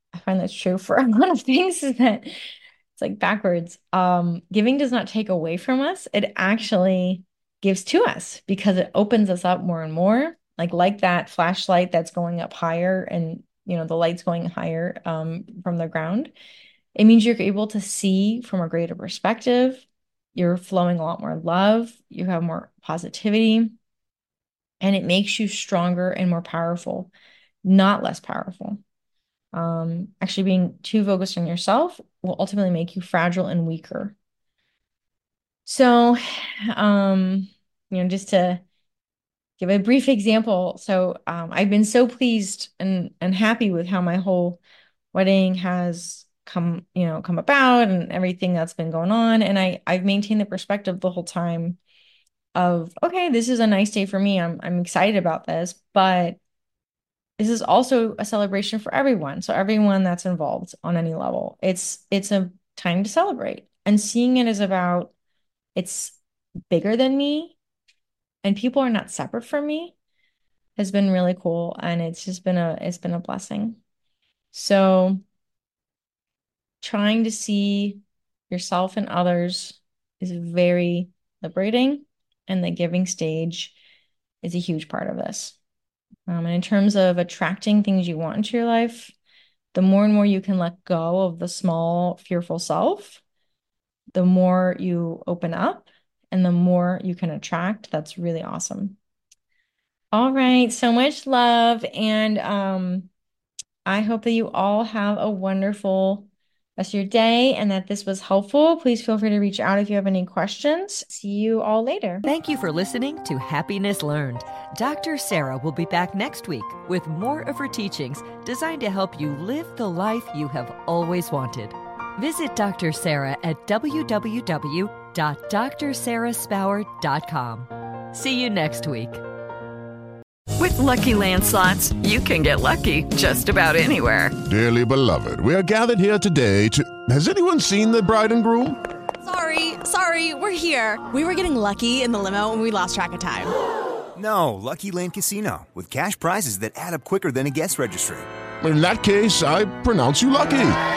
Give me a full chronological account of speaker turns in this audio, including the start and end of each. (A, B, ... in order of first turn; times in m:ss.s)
0:00.1-0:16.3 A
0:16.9-0:23.8 A
0:24.8-0:27.1 A
0:27.6-0:28.8 A
0:29.5-0:34.1 A
0:35.6-0:38.6 A
0:39.6-0:44.6 A
0:45.1-0:51.8 A
0:52.5-0:56.4 A
0:57.4-1:05.1 A
1:05.7-1:06.2 A
1:06.7-1:07.6 A
1:08.4-1:09.9 A
1:10.8-1:13.8 A
1:14.5-1:15.2 A
1:16.8-1:23.7 A
1:24.4-1:25.6 A
1:26.3-1:29.1 A
1:29.7-1:33.2 A
1:34.1-1:39.0 A
1:40.1-1:43.1 A
1:43.8-1:52.2 A
1:52.2-2:09.2 B
2:10.6-2:14.4 C
2:14.4-2:18.8 D
2:19.2-2:23.5 E
2:24.2-2:28.3 F
2:28.6-2:30.8 D